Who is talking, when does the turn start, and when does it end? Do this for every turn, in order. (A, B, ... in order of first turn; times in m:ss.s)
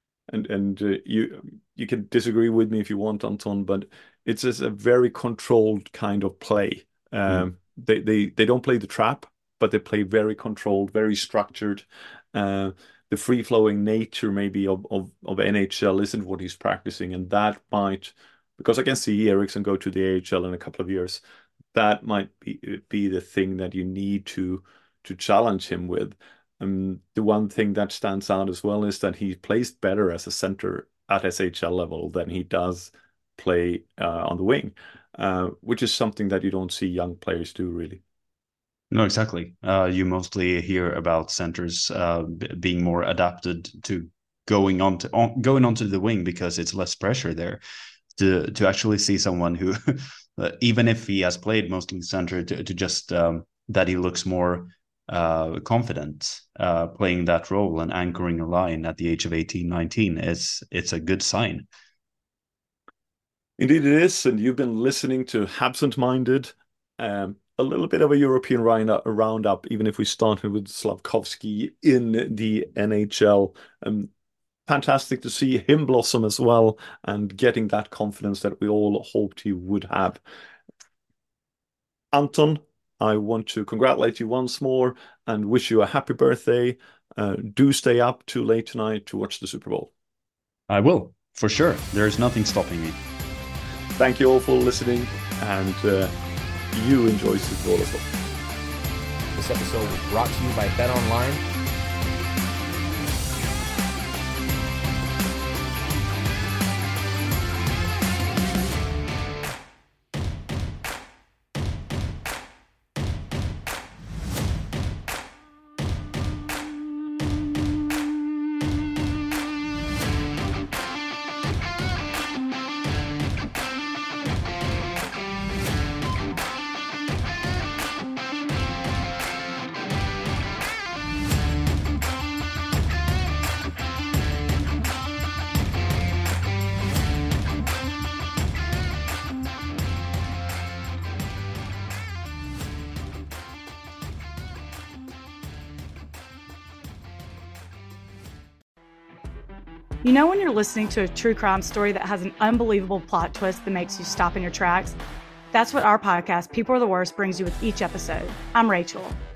0:00.3-0:21.2 A
0:21.7-0:38.0 A
0:38.9-0:47.6 B
0:48.2-1:01.7 B
1:03.6-1:14.1 A
1:14.7-1:20.2 A
1:22.1-1:29.9 A
1:30.7-1:33.0 B
1:34.0-1:36.1 A
1:36.7-1:38.1 A
1:39.4-1:41.4 C
2:30.0-2:35.0 D
2:35.5-2:39.2 D